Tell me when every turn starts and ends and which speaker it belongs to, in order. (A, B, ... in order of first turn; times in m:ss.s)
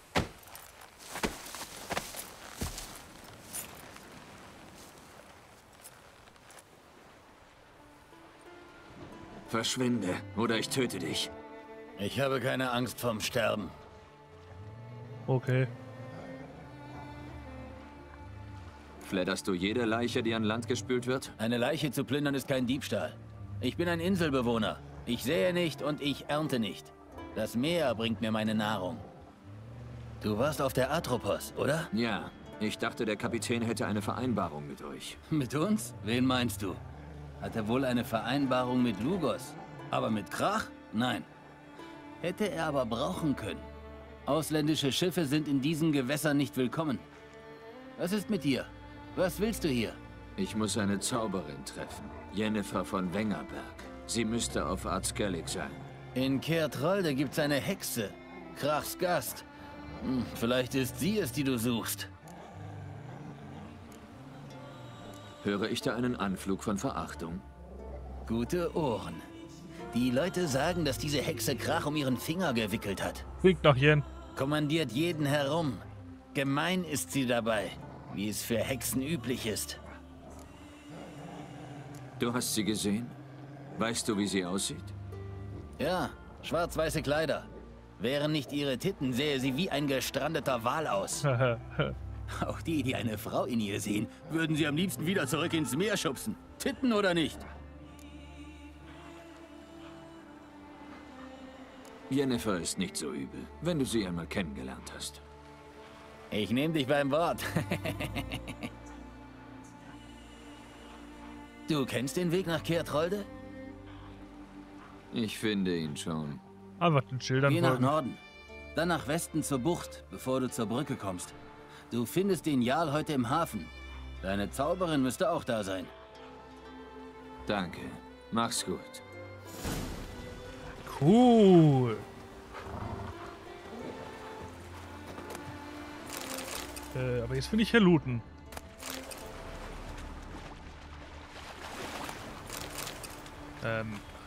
0:09.5-0:11.3 A
0:12.0-0:13.7 B
0:15.3-0:15.7 C
0:19.0-0:21.3 A
0:21.4-0:29.0 B
0:30.2-0:31.9 B
0:31.9-0:35.2 A
0:35.3-0:36.8 B
0:37.4-0:41.3 B
0:42.2-0:43.7 B
0:44.2-0:47.0 B
0:48.0-0:50.0 B
0:50.4-0:55.8 A
0:56.1-0:59.4 B
1:00.0-1:02.1 B
1:05.4-1:07.4 A
1:08.2-1:09.2 B
1:09.9-1:13.2 B
1:13.4-1:14.0 C
1:14.3-1:19.8 B
1:22.2-1:23.1 A
1:23.8-1:24.9 A
1:25.8-1:31.2 B
1:31.2-1:31.9 C
1:32.3-1:37.4 B
1:42.1-1:45.2 A
1:46.3-1:48.7 B
1:51.7-1:53.3 B
1:55.1-1:56.4 A
1:56.8-1:57.9 C
1:57.4-1:58.2 B
1:58.7-2:01.4 B
2:01.9-2:05.9 B
2:07.5-2:09.0 A
2:10.8-2:12.0 C
2:16.9-2:18.2 C
2:23.6-2:24.0 C